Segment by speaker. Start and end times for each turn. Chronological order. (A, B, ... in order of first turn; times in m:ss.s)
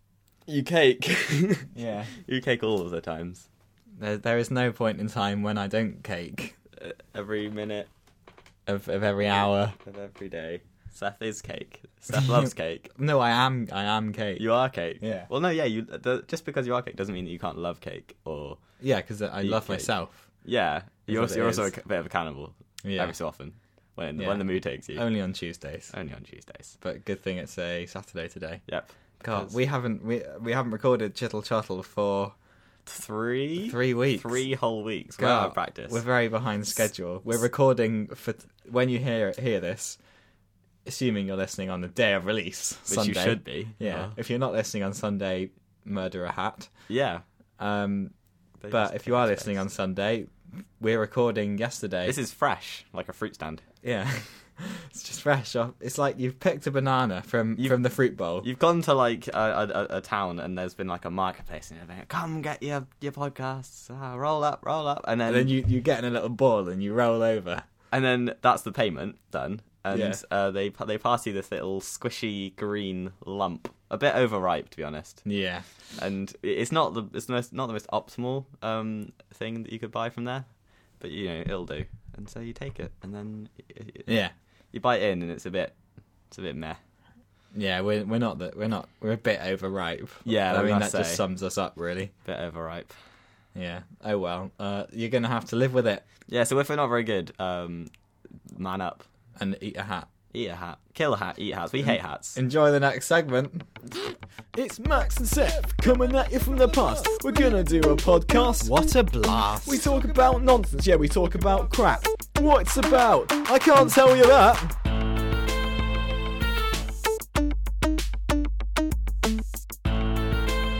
0:00.5-0:01.7 A
0:01.7-0:02.1 B
0:02.2-0:03.4 A
0:04.0-0:06.6 B
0:06.8-0:07.9 A
0:08.7-0:09.8 B
0:09.8-0:12.9 A
0:12.9-0:14.4 B
0:14.4-0:18.6 A
0:15.0-0:15.3 B
0:18.8-0:20.3 B
0:19.4-0:19.9 A
0:20.4-0:25.0 A
0:21.1-0:21.7 B
0:22.8-0:23.1 B
0:24.2-0:25.9 B
0:25.9-0:26.8 A
0:26.8-0:28.6 B
0:28.7-0:29.5 A
0:29.2-0:32.3 B
0:32.9-0:36.0 A
0:33.6-0:34.4 B
0:35.2-0:40.0 B
0:40.8-0:46.7 B
0:42.9-0:44.1 A
0:46.9-0:47.2 A
0:47.6-0:48.1 B
0:48.6-0:49.6 A
0:48.7-0:52.2 B
0:52.0-0:53.6 A
0:53.8-0:58.5 B
0:58.4-1:05.5 A
1:05.2-1:07.6 B
1:07.9-1:15.2 A
1:09.9-1:10.2 B
1:15.2-1:15.6 B
1:16.0-1:20.5 A
1:21.0-1:24.1 A
1:24.0-1:24.3 B
1:24.7-1:25.8 A
1:26.3-1:26.8 A
1:27.5-1:32.1 B
1:30.2-1:31.2 A
1:32.2-1:32.9 A
1:33.5-1:36.0 B
1:36.3-1:37.9 A
1:38.5-1:39.0 A
1:39.4-1:40.1 B
1:40.3-1:42.4 A
1:41.8-1:43.6 B
1:44.5-1:48.8 C
1:48.6-1:49.8 B
1:49.6-1:54.7 C